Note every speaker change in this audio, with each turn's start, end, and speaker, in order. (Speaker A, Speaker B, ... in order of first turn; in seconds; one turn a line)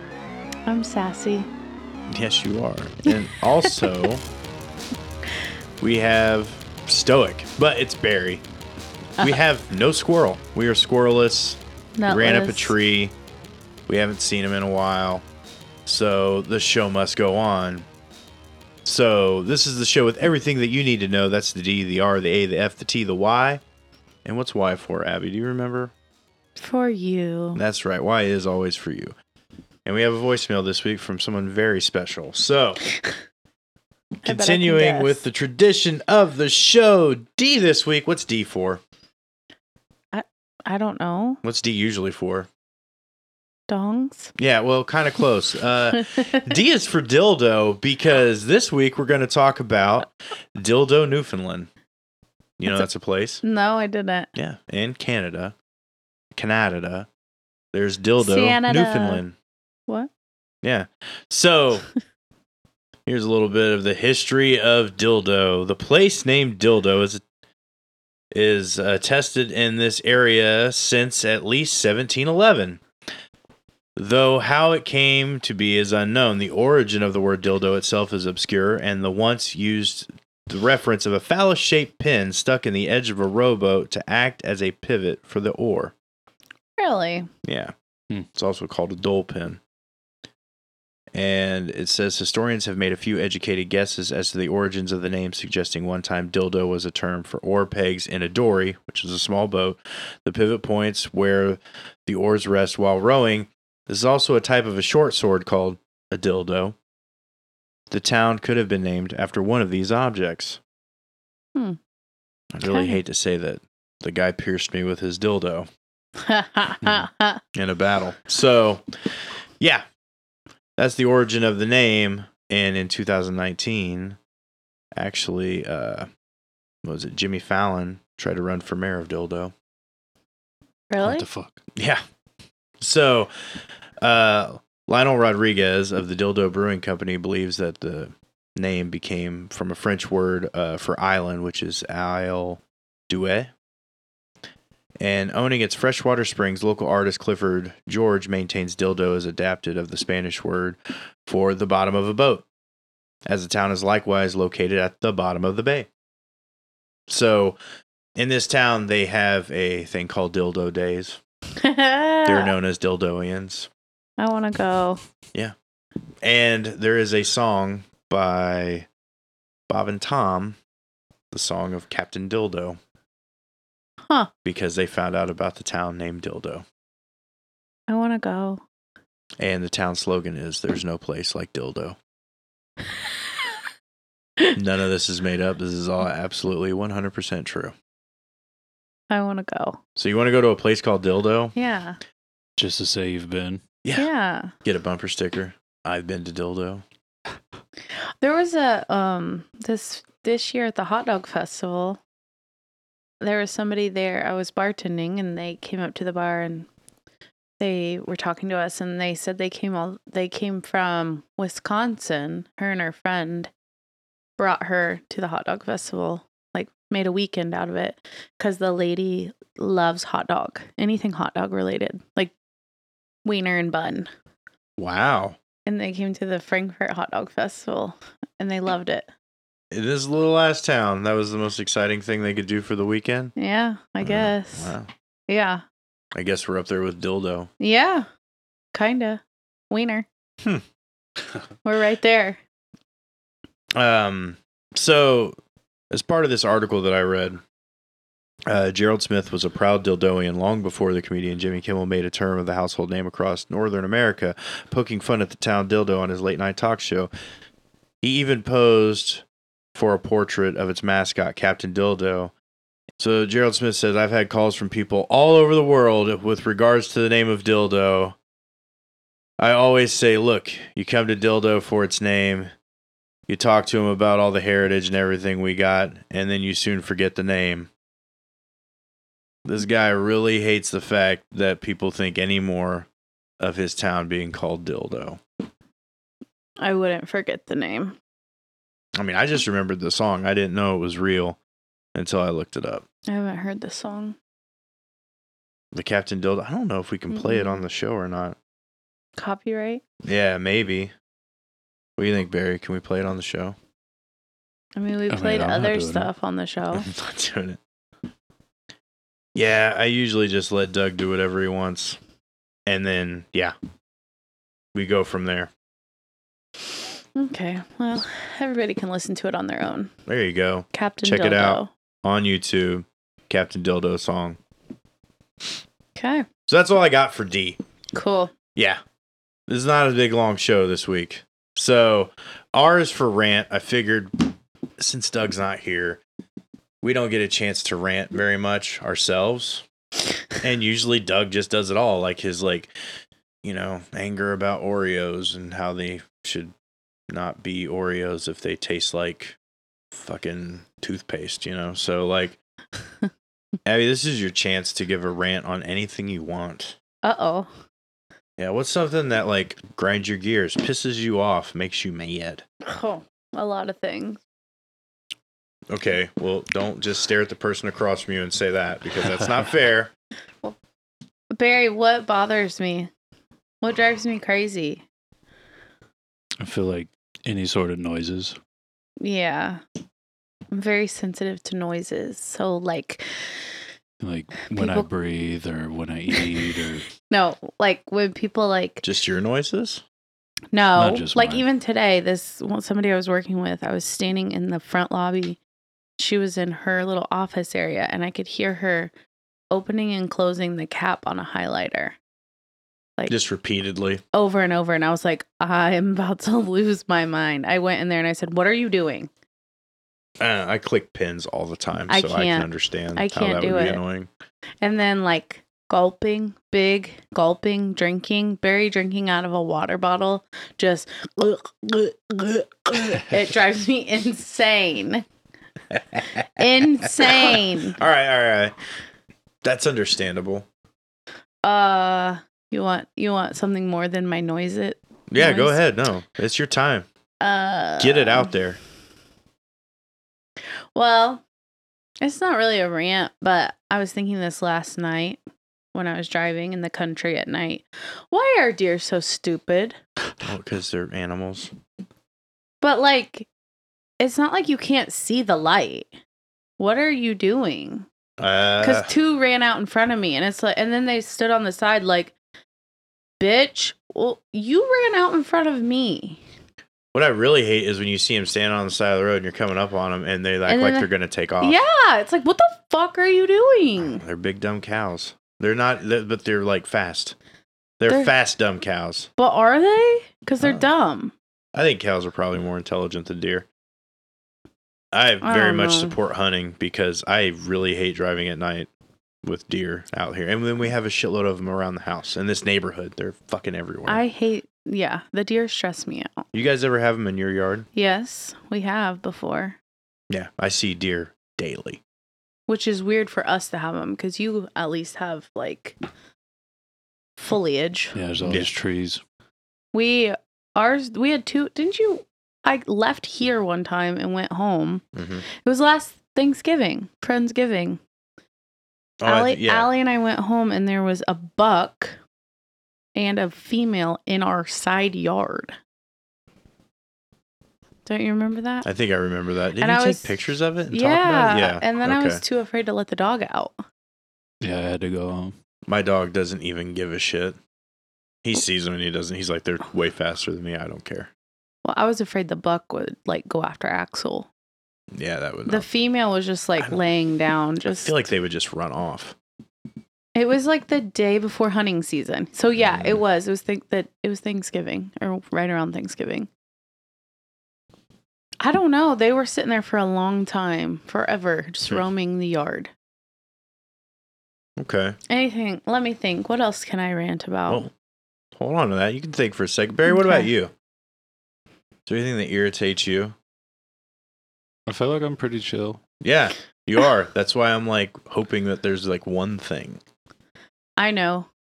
Speaker A: 0.7-1.5
Speaker B: 2.1-4.2
Speaker B: 5.8-8.4
Speaker B: 9.2-13.1
Speaker A: 12.0-12.7
Speaker B: 13.9-15.2
Speaker B: 15.8-17.9
Speaker B: 18.8-23.6
Speaker B: 24.2-25.9
Speaker A: 26.6-27.6
Speaker B: 27.5-29.1
Speaker B: 29.8-32.8
Speaker A: 34.2-35.2
Speaker B: 34.2-38.8
Speaker A: 40.1-41.4
Speaker B: 41.4-42.5
Speaker A: 43.7-44.3
Speaker B: 44.4-51.7
Speaker A: 46.0-46.5
Speaker B: 52.6-53.4
Speaker A: 53.4-54.3
Speaker B: 54.4-55.5
Speaker B: 56.3-57.1
Speaker B: 57.7-59.4
Speaker A: 58.2-59.2
Speaker B: 60.6-61.9
Speaker B: 63.0-67.2
Speaker B: 68.3-72.8
Speaker B: 74.0-85.9
Speaker A: 86.8-87.3
Speaker B: 87.4-87.7
Speaker B: 88.3-89.6
Speaker B: 91.1-106.8
Speaker B: 107.9-110.6
Speaker B: 112.5-115.7
Speaker A: 112.6-113.0
Speaker A: 116.2-117.4
Speaker B: 117.5-119.8
Speaker B: 120.8-124.2
Speaker B: 125.0-126.1
Speaker B: 126.8-129.5
Speaker A: 130.9-131.3
Speaker C: 131.0-131.6
Speaker B: 131.8-132.0
Speaker B: 132.8-133.3
Speaker B: 134.0-143.5
Speaker B: 145.0-152.4
Speaker B: 153.2-155.9
Speaker B: 157.1-157.6
Speaker B: 158.2-161.2
Speaker A: 161.6-162.5
Speaker B: 162.2-163.7
Speaker A: 164.2-165.0
Speaker B: 166.2-168.9
Speaker B: 169.7-170.6
Speaker B: 171.3-172.8
Speaker B: 174.4-176.6
Speaker A: 177.9-178.6
Speaker B: 179.4-182.0
Speaker B: 184.5-187.7
Speaker A: 189.1-189.8
Speaker B: 189.9-191.5
Speaker A: 191.6-192.0
Speaker C: 192.6-193.6
Speaker B: 193.8-194.1
Speaker A: 193.9-194.5
Speaker B: 194.6-196.8
Speaker A: 198.2-202.0
Speaker A: 203.2-206.7
Speaker A: 207.6-213.5
Speaker A: 214.4-222.3
Speaker A: 223.2-224.1
Speaker B: 224.8-225.4
Speaker A: 225.7-229.1
Speaker B: 229.7-233.3
Speaker A: 233.3-234.7
Speaker B: 234.0-234.9
Speaker A: 235.3-235.6
Speaker B: 236.1-237.5
Speaker A: 237.6-238.1
Speaker A: 238.7-240.1
Speaker A: 241.6-242.4
Speaker B: 243.7-245.3
Speaker B: 245.9-247.4
Speaker B: 248.5-257.1
Speaker B: 258.0-262.3
Speaker B: 263.0-268.1
Speaker B: 269.4-272.5
Speaker B: 273.3-277.7
Speaker B: 279.4-282.9
Speaker B: 283.4-285.2
Speaker A: 286.6-287.9
Speaker B: 289.0-291.4
Speaker B: 291.9-292.8
Speaker A: 293.1-294.1
Speaker B: 295.7-298.4
Speaker A: 297.1-297.6
Speaker A: 299.2-299.8
Speaker B: 300.0-300.9
Speaker B: 302.0-303.6
Speaker A: 304.8-306.9
Speaker C: 305.1-306.1
Speaker B: 306.8-307.6
Speaker B: 309.3-312.0
Speaker B: 312.7-313.5
Speaker B: 314.7-315.5
Speaker A: 317.1-319.9
Speaker B: 320.1-324.4
Speaker A: 320.7-321.7
Speaker A: 325.9-326.3
Speaker B: 326.5-327.6
Speaker A: 327.9-328.3
Speaker B: 328.6-328.8
Speaker B: 329.5-336.0
Speaker B: 336.8-339.6
Speaker B: 340.4-342.7
Speaker B: 343.4-346.5
Speaker B: 347.1-349.4
Speaker B: 349.9-352.4
Speaker B: 353.6-356.8
Speaker A: 357.0-357.5
Speaker B: 358.4-362.4
Speaker A: 362.6-364.2
Speaker B: 365.7-369.9
Speaker C: 369.0-369.3
Speaker A: 371.3-372.9
Speaker A: 373.6-374.8
Speaker C: 376.4-378.4
Speaker A: 379.0-379.6
Speaker A: 380.5-383.3
Speaker C: 384.0-386.9
Speaker A: 384.5-384.9
Speaker A: 387.1-388.8
Speaker B: 388.8-389.8
Speaker A: 390.5-395.4
Speaker C: 390.8-391.4
Speaker A: 396.0-398.9
Speaker A: 399.5-402.0
Speaker B: 403.1-404.0
Speaker A: 404.1-409.1
Speaker B: 410.2-414.1
Speaker A: 411.9-413.8
Speaker A: 414.6-425.0
Speaker B: 425.9-426.2
Speaker A: 426.4-427.8
Speaker B: 426.8-428.5
Speaker B: 429.4-430.5
Speaker A: 431.4-435.6
Speaker B: 435.1-436.9
Speaker A: 437.2-438.3
Speaker B: 437.8-438.6
Speaker A: 440.7-441.2
Speaker A: 442.0-445.2
Speaker A: 445.7-449.8
Speaker B: 450.2-451.5
Speaker A: 452.6-453.3
Speaker A: 454.0-455.9
Speaker A: 456.6-457.9
Speaker B: 458.2-458.9
Speaker A: 458.6-462.1
Speaker A: 463.2-466.2
Speaker B: 466.9-471.6
Speaker A: 470.5-470.9
Speaker A: 471.4-474.0
Speaker B: 473.8-477.1
Speaker B: 477.8-479.1
Speaker A: 477.9-478.1
Speaker A: 479.2-481.1
Speaker B: 480.4-480.7
Speaker B: 481.5-483.4
Speaker B: 484.9-488.7
Speaker A: 485.2-485.9
Speaker B: 489.2-494.0
Speaker A: 493.9-496.2
Speaker B: 496.3-497.7
Speaker A: 497.7-499.6
Speaker B: 500.1-501.8
Speaker A: 502.5-505.8
Speaker A: 507.2-508.0
Speaker C: 507.9-509.0
Speaker B: 508.2-508.5
Speaker A: 509.7-517.8
Speaker B: 514.9-515.2
Speaker B: 519.0-519.7
Speaker A: 519.0-522.0
Speaker A: 523.0-525.5
Speaker A: 527.9-528.7
Speaker B: 528.6-532.2
Speaker A: 529.6-530.1
Speaker A: 530.7-533.6
Speaker C: 534.4-535.3
Speaker B: 535.7-537.4
Speaker B: 538.2-541.1
Speaker A: 541.6-544.3
Speaker B: 544.9-545.6
Speaker A: 545.5-548.0
Speaker B: 547.6-549.1
Speaker A: 550.1-556.3
Speaker B: 552.6-553.0
Speaker A: 558.4-562.7
Speaker B: 564.6-565.0
Speaker A: 565.1-567.7
Speaker B: 568.4-570.5
Speaker A: 569.9-570.3
Speaker B: 571.9-573.1
Speaker C: 574.7-575.8
Speaker B: 576.0-579.8
Speaker A: 580.8-581.3